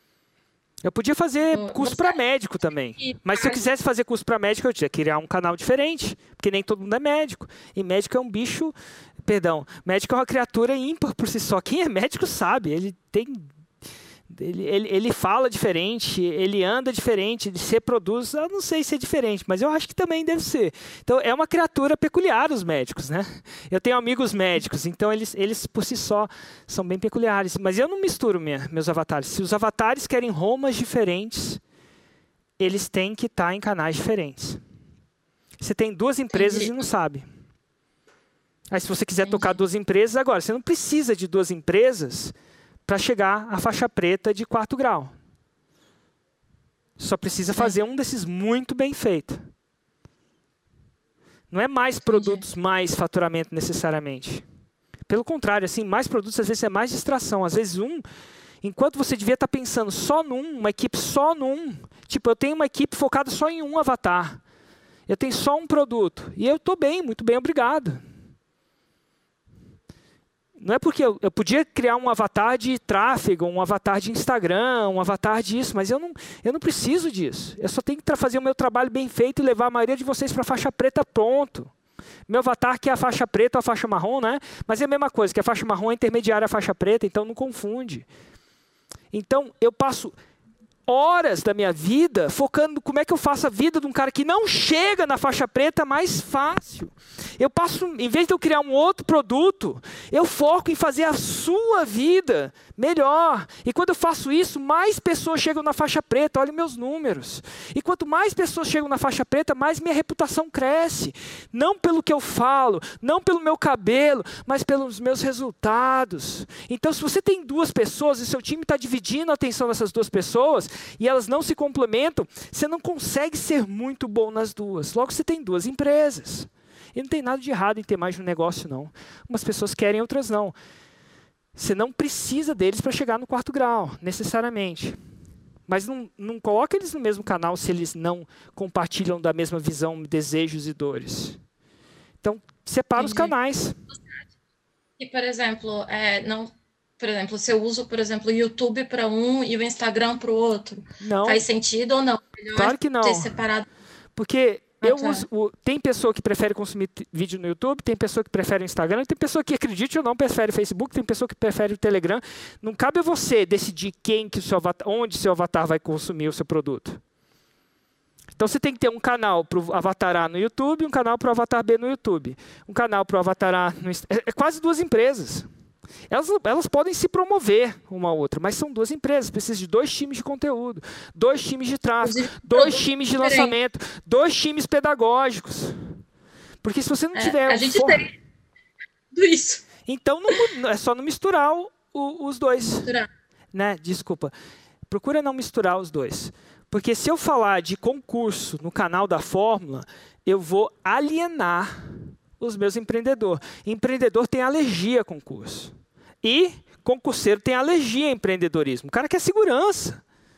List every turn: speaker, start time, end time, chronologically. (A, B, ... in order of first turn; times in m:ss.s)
0:00.8-0:13.5 A
0:01.5-0:02.2 B
0:03.0-0:03.6 B
0:14.3-0:31.6 A
0:32.6-0:34.6 A
0:35.6-0:37.2 A
0:36.3-0:36.9 B
0:38.7-0:42.3 A
0:39.2-0:39.6 B
0:42.9-0:45.1 A
0:47.0-0:49.4 A
0:51.5-0:54.4 A
0:52.1-0:52.4 B
0:55.1-0:58.0 A
0:58.6-1:04.4 A
1:05.1-1:08.0 A
1:10.6-1:21.7 A
1:22.3-1:28.1 A
1:29.1-1:30.2 A
1:30.9-2:10.6 A
2:11.6-2:15.0 A
2:15.7-2:21.4 A
2:22.2-2:23.8 A
2:23.0-2:23.3 B
2:25.0-2:33.7 B
2:31.0-2:31.4 A
2:32.6-2:33.3 A
2:34.2-2:47.0 A
2:34.8-2:35.2 B
2:48.4-2:55.5 A
2:56.1-3:05.9 A
3:02.0-3:03.6 B
3:06.6-3:08.0 A
3:07.1-3:08.1 B
3:09.1-3:09.6 B
3:09.9-3:12.9 A
3:12.6-3:13.1 B
3:13.5-3:14.3 A
3:14.9-3:30.0 A